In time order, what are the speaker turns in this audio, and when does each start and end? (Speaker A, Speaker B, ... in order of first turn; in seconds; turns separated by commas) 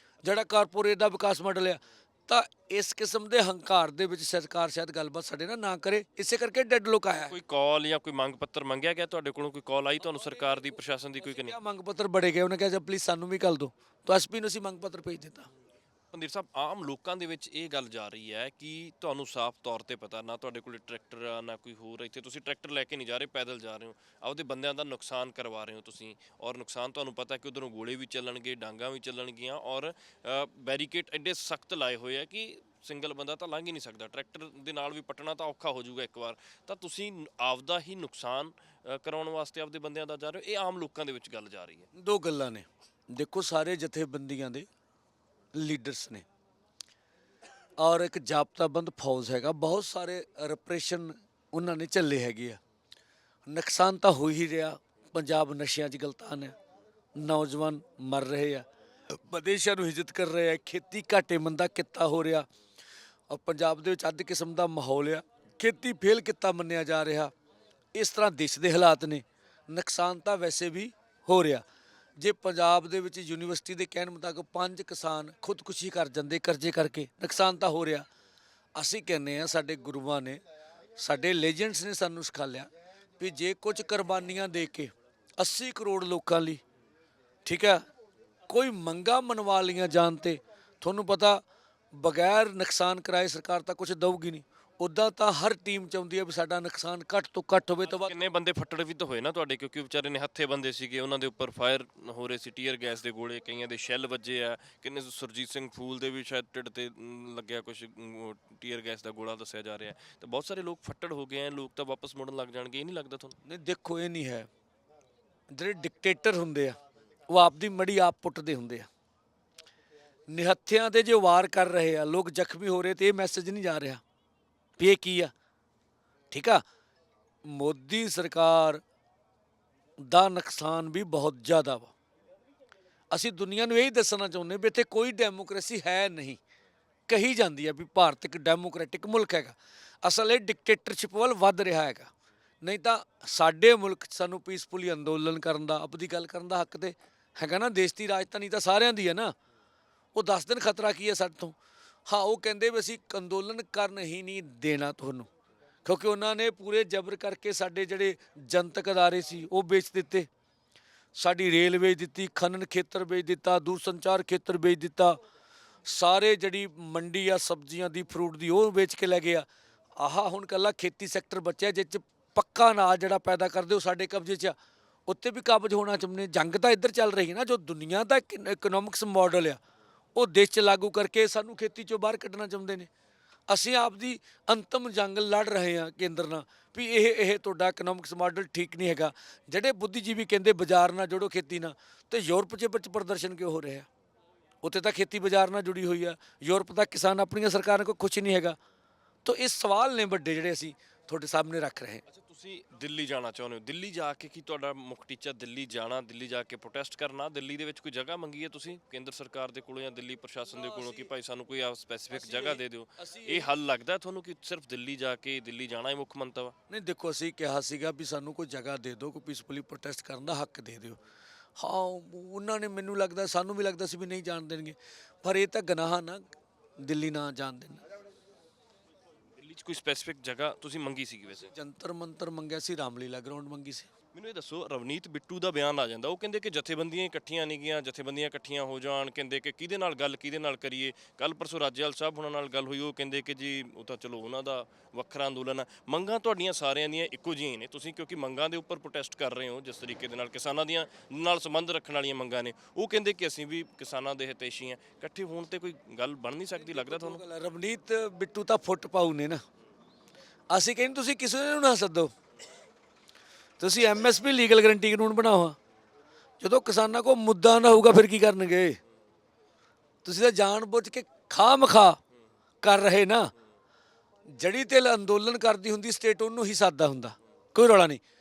Speaker A: 0.2-7.4, Speaker B: 7.1-11.5, Speaker A: 10.0-10.7, Speaker A: 11.2-15.5, Speaker B: 16.1-41.9, Speaker A: 41.9-44.6, Speaker A: 45.5-46.2, Speaker A: 47.8-52.6, Speaker A: 53.5-56.5, Speaker A: 57.2-62.5, Speaker A: 63.3-67.3, Speaker A: 67.9-71.6, Speaker A: 72.2-78.0, Speaker A: 78.7-80.4, Speaker A: 81.0-86.6, Speaker A: 87.4-87.8, Speaker A: 88.5-91.4, Speaker A: 91.9-98.2, Speaker B: 97.9-113.4, Speaker A: 113.5-114.5, Speaker A: 115.5-116.8, Speaker A: 117.3-118.9, Speaker A: 120.3-124.0, Speaker A: 124.8-125.3, Speaker A: 126.3-126.6, Speaker A: 127.4-128.8, Speaker A: 130.0-131.9, Speaker A: 133.1-136.4, Speaker A: 137.1-142.1, Speaker A: 142.6-149.3, Speaker A: 150.1-151.6, Speaker A: 152.1-155.3, Speaker A: 155.8-160.3, Speaker A: 161.2-165.2, Speaker A: 165.8-174.6, Speaker A: 175.1-179.6, Speaker A: 180.1-182.9, Speaker A: 183.5-193.9, Speaker A: 194.6-198.6, Speaker A: 199.2-202.0, Speaker B: 202.1-216.5, Speaker A: 210.5-211.1, Speaker A: 212.1-213.5, Speaker A: 216.7-221.0, Speaker A: 221.6-226.3, Speaker A: 226.8-227.8, Speaker B: 229.4-231.5, Speaker A: 231.5-233.9, Speaker B: 234.1-257.2, Speaker A: 256.6-259.4, Speaker A: 260.5-262.1, Speaker A: 263.6-265.6, Speaker A: 266.4-268.8, Speaker A: 270.0-272.0, Speaker A: 272.6-273.3, Speaker A: 274.3-278.0